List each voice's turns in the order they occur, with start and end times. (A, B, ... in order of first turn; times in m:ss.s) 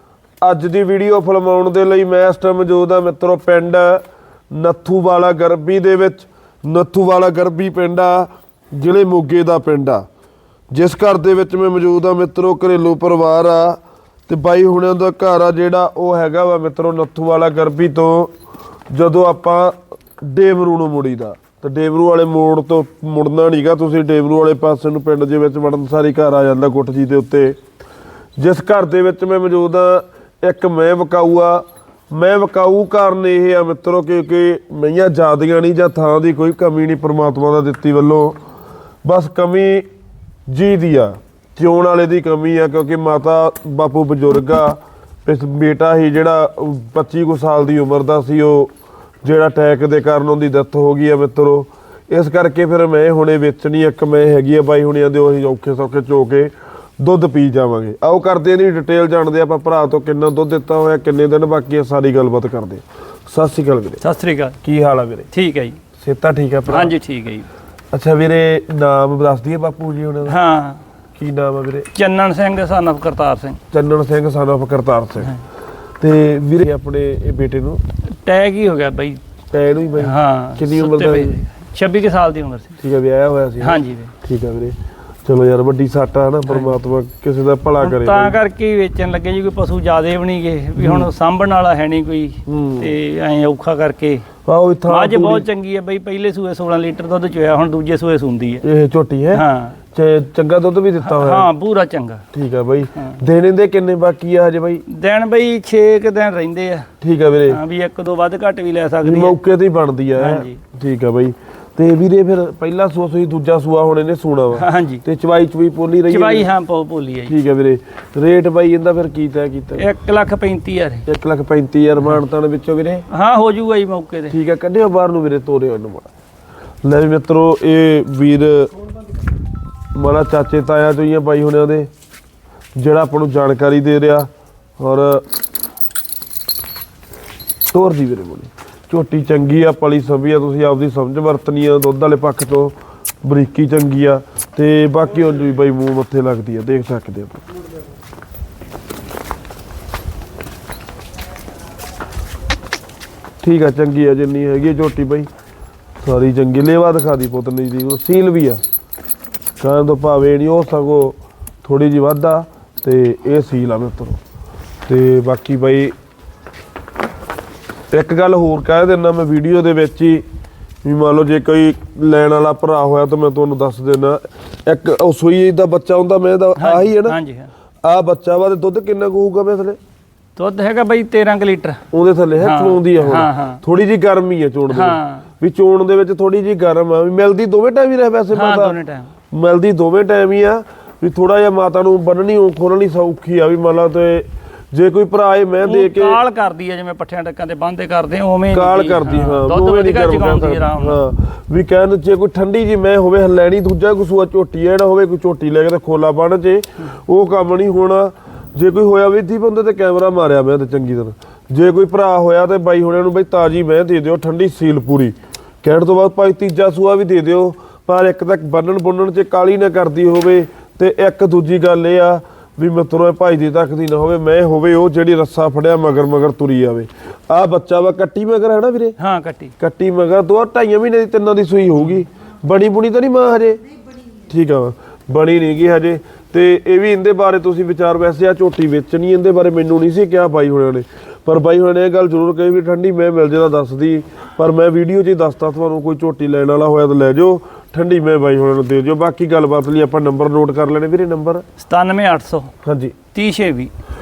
0:00.4-0:10.0 A
0:10.7-0:18.3 A
0:18.9-0:27.6 A
0:28.4-0:38.4 A
0:39.0-0:39.9 A
0:40.5-0:48.7 A
0:49.2-1:04.0 A
1:04.0-1:04.6 B
1:04.6-1:05.3 A
1:05.3-1:05.8 B
1:06.0-1:06.9 A
1:06.7-1:07.5 B
1:07.9-1:10.4 A
1:10.2-1:10.8 B
1:11.2-1:11.9 A
1:11.9-1:13.6 B
1:13.7-1:15.4 A
1:16.0-1:17.8 A
1:18.1-1:19.2 B
1:19.5-1:21.4 A
1:20.0-1:22.8 B
1:22.8-1:28.4 A
1:23.6-1:24.1 B
1:26.5-1:26.7 B
1:27.8-1:34.2 B
1:30.8-1:31.1 A
1:32.4-1:32.9 A
1:34.4-1:35.4 A
1:34.9-1:38.6 B
1:38.6-1:41.5 A
1:39.3-1:39.8 B
1:41.0-1:42.2 B
1:42.3-1:44.8 A
1:44.9-1:46.9 B
1:47.0-1:47.6 A
1:47.5-1:49.4 B
1:49.0-1:56.5 A
1:50.2-1:50.6 B
1:54.6-1:55.0 B
1:56.1-1:57.3 B
1:57.3-1:59.9 A
1:59.8-2:01.0 B
2:01.0-2:03.1 A
2:03.1-2:04.4 B
2:04.3-2:06.1 A
2:06.8-2:08.7 A
2:10.0-2:11.9 A
2:12.8-2:15.2 A
2:17.7-2:27.4 A
2:33.4-2:35.3 A
2:36.0-2:38.6 A
2:39.6-2:44.2 A
2:44.9-2:46.0 A
2:47.9-2:50.2 A
2:50.8-2:57.2 A
2:56.6-2:57.5 B
2:57.8-2:59.8 A
3:00.4-3:01.8 B
3:01.9-3:08.8 A
3:02.4-3:03.6 B
3:04.7-3:05.2 B
3:08.3-3:09.1 B
3:09.3-3:16.2 A
3:15.6-3:21.0 B
3:18.5-3:49.0 A
3:49.0-3:49.5 B
3:49.6-3:53.6 A
3:54.3-4:11.4 A
4:11.6-4:12.5 B
4:12.6-4:13.0 A
4:13.1-4:13.7 B